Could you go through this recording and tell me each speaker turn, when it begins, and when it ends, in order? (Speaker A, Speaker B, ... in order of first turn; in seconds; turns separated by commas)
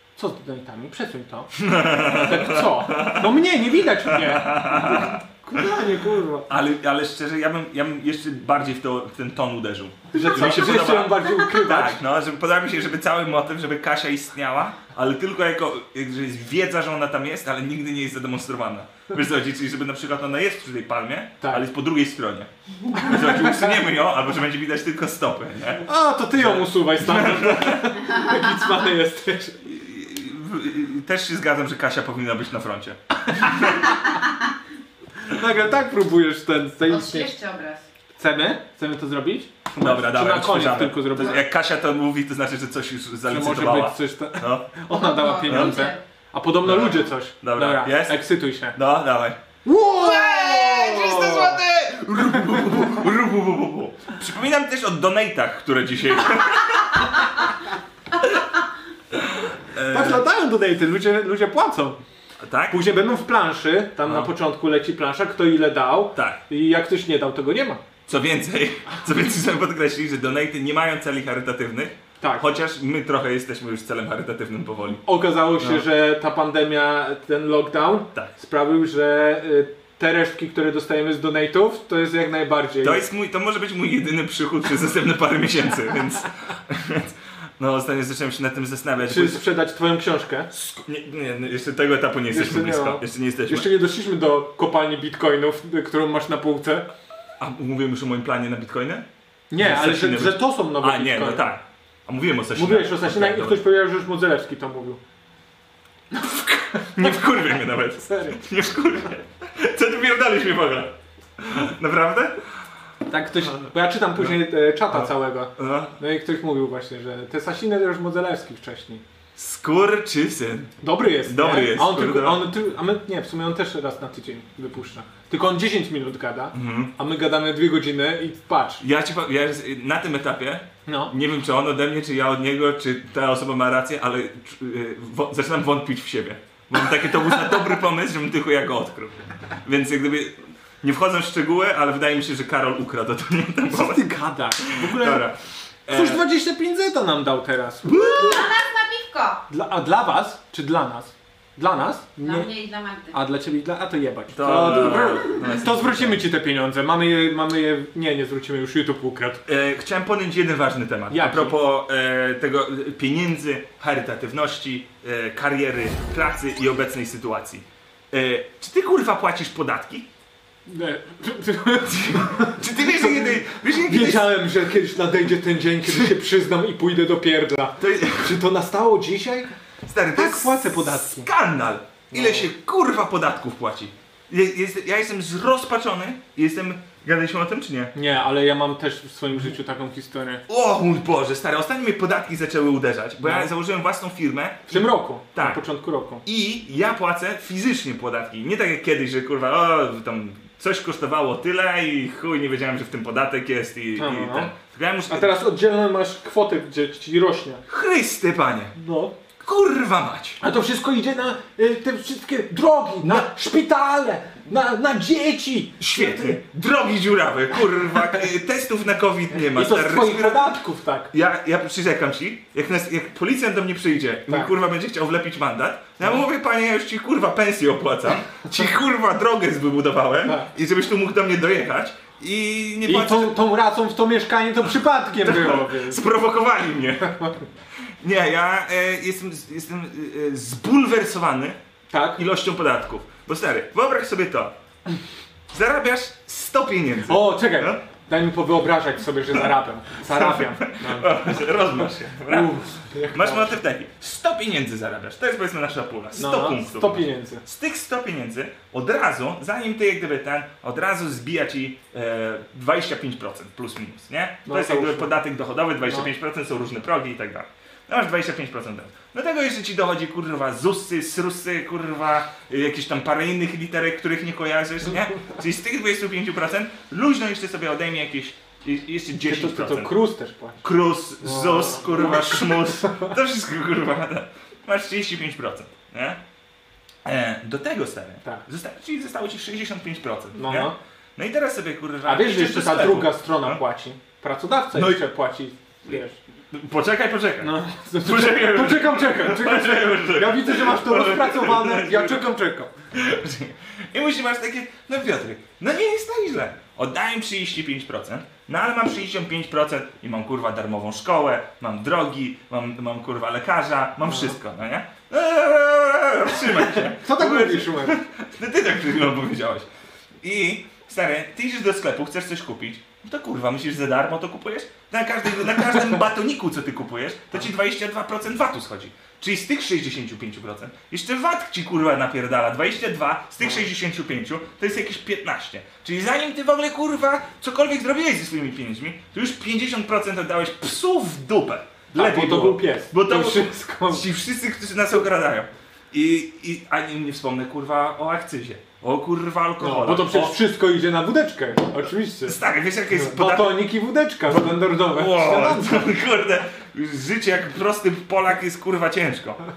Speaker A: 0.2-6.5, Speaker B: 1.6-3.3, Speaker B: 4.0-5.6, Speaker B: 6.5-27.9, Speaker A: 10.1-12.0, Speaker A: 21.4-21.6, Speaker A: 22.9-23.8, Speaker A: 25.8-29.6, Speaker B: 29.6-33.9, Speaker A: 33.3-33.8, Speaker A: 35.2-37.3, Speaker C: 36.9-37.9, Speaker A: 38.2-41.4, Speaker B: 39.7-44.7, Speaker A: 43.2-48.8, Speaker C: 44.9-46.0, Speaker B: 45.4-45.8, Speaker B: 46.6-49.4, Speaker A: 49.6-51.6, Speaker B: 50.0-57.2, Speaker C: 50.4-50.8, Speaker B: 59.1-60.2, Speaker A: 59.8-62.0, Speaker B: 62.4-62.8, Speaker A: 62.7-67.8, Speaker B: 64.0-64.3, Speaker B: 66.1-66.4, Speaker B: 68.1-75.0, Speaker A: 72.2-72.5, Speaker A: 75.0-83.0, Speaker B: 75.6-75.8, Speaker B: 82.8-89.4, Speaker A: 89.0-90.5, Speaker B: 90.5-93.7, Speaker A: 92.3-96.9, Speaker B: 97.4-99.0, Speaker A: 99.5-101.5, Speaker B: 99.6-103.6, Speaker A: 102.5-105.0, Speaker A: 106.1-107.2, Speaker B: 106.9-112.4, Speaker A: 108.0-108.4, Speaker A: 113.1-119.0, Speaker B: 114.9-116.0, Speaker B: 119.3-122.5, Speaker A: 120.8-128.8, Speaker B: 126.5-126.9, Speaker B: 128.8-144.1, Speaker A: 130.8-131.1, Speaker A: 143.7-145.3, Speaker B: 144.6-146.2, Speaker A: 145.9-148.4, Speaker B: 147.8-148.4, Speaker C: 147.9-149.4, Speaker A: 149.5-152.5, Speaker C: 152.2-153.2, Speaker A: 153.1-159.4, Speaker B: 154.3-156.2, Speaker B: 159.4-170.1, Speaker A: 161.1-161.5, Speaker A: 170.7-179.5, Speaker B: 171.9-174.5, Speaker B: 177.8-178.4, Speaker B: 179.8-187.9, Speaker A: 180.1-181.3, Speaker A: 182.1-182.5, Speaker A: 187.9-190.4, Speaker B: 190.5-195.6, Speaker A: 193.2-193.5, Speaker A: 194.7-196.2, Speaker B: 196.2-205.3, Speaker A: 204.0-204.5, Speaker A: 205.1-207.6, Speaker B: 207.7-208.7, Speaker A: 208.7-209.1, Speaker B: 209.4-210.4, Speaker A: 210.4-216.4, Speaker B: 213.0-213.3, Speaker B: 215.8-220.5, Speaker A: 219.4-221.1, Speaker B: 221.1-233.4, Speaker A: 230.2-230.5, Speaker A: 232.8-236.0, Speaker B: 235.2-237.2, Speaker B: 238.0-241.6, Speaker A: 241.9-242.2, Speaker B: 242.2-244.5, Speaker B: 245.5-247.8, Speaker A: 247.1-251.1, Speaker B: 250.0-279.9, Speaker A: 252.3-253.6, Speaker A: 256.1-257.4, Speaker A: 264.4-265.1, Speaker A: 279.2-280.6, Speaker B: 280.6-286.2, Speaker A: 281.2-283.1, Speaker B: 287.0-293.6, Speaker A: 290.4-290.8, Speaker A: 292.0-296.2, Speaker B: 294.7-295.0, Speaker B: 296.5-302.2, Speaker A: 297.4-302.7, Speaker B: 302.9-319.7, Speaker A: 314.1-314.3, Speaker A: 316.5-318.0, Speaker B: 320.2-350.4, Speaker A: 341.9-344.1, Speaker A: 349.6-352.4, Speaker B: 352.2-353.6, Speaker A: 352.9-355.9, Speaker B: 354.3-359.4